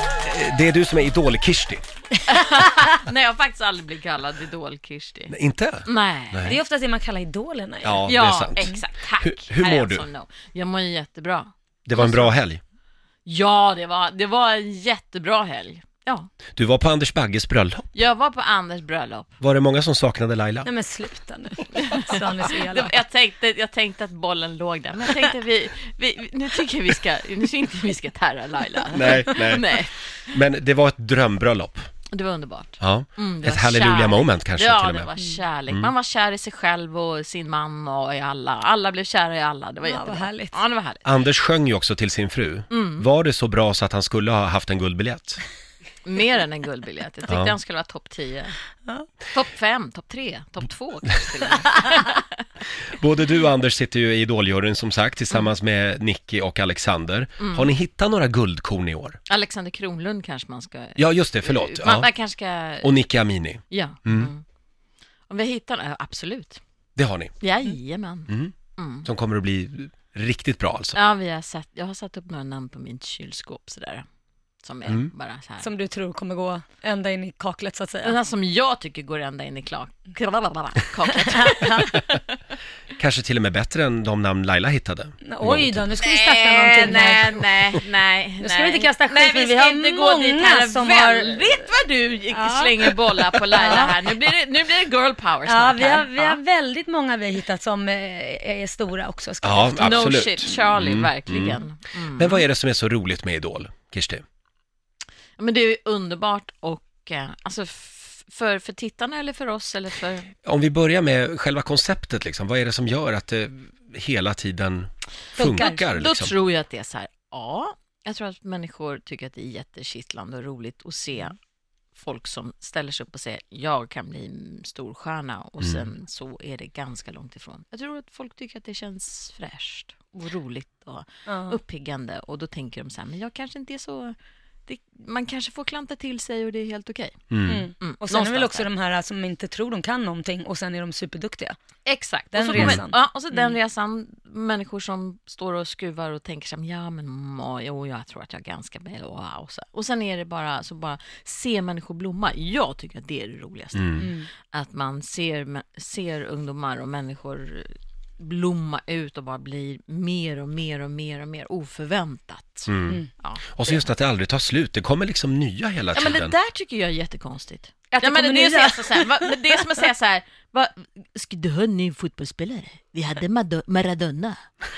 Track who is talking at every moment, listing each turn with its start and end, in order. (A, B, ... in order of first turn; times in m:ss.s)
0:00.2-0:01.8 A
0:02.2-0:05.3 B
0:05.3-0:06.6 A
0:05.8-0:06.6 B
0:06.4-0:08.0 C
0:07.8-0:10.0 A
0:08.0-0:12.3 B
0:11.8-0:12.6 A
0:13.2-0:16.3 B
0:16.5-0:17.9 A
0:17.9-0:19.3 B
0:19.4-0:20.7 A
0:20.6-0:23.0 C
0:21.8-0:30.1 B
0:28.9-0:29.7 A
0:30.3-0:31.9 A
0:32.1-0:41.1 B
0:32.8-0:35.1 A
0:39.8-0:40.6 C
0:41.0-0:45.4 A
0:42.7-0:43.1 B
0:46.0-0:48.6 B
0:47.3-0:47.5 A
0:49.3-0:52.4 B
0:52.8-0:59.2 A
0:57.4-0:57.7 B
0:59.3-1:03.0 B
1:01.0-1:02.1 A
1:02.8-1:04.3 A
1:03.7-1:04.4 B
1:05.3-1:06.6 B
1:07.0-1:07.4 A
1:07.4-1:09.1 B
1:08.3-1:08.5 A
1:09.0-1:11.0 A
1:10.9-1:14.0 B
1:14.6-1:15.7 B
1:15.6-1:18.2 C
1:18.0-1:22.2 B
1:21.2-1:21.9 C
1:23.0-1:25.9 A
1:25.2-1:27.4 C
1:26.0-1:36.4 B
1:28.4-1:31.6 C
1:32.3-1:34.1 C
1:35.4-1:40.1 C
1:39.4-1:41.6 A
1:39.8-1:42.4 B
1:42.2-1:44.2 A
1:45.4-1:50.3 B
1:50.4-1:56.3 A
1:55.3-1:55.8 C
1:55.5-2:01.4 B
2:01.9-2:14.1 B
2:11.3-2:11.6 C
2:14.7-2:17.2 B
2:17.3-2:17.6 A
2:17.5-2:21.6 C
2:17.8-2:18.7 B
2:21.8-2:42.7 B
2:22.3-2:23.5 C
2:22.5-2:22.8 A
2:33.7-2:34.1 A
2:34.0-2:34.3 C
2:42.7-2:46.3 A
2:43.2-2:43.9 B
2:45.9-2:54.5 B
2:47.9-2:49.6 C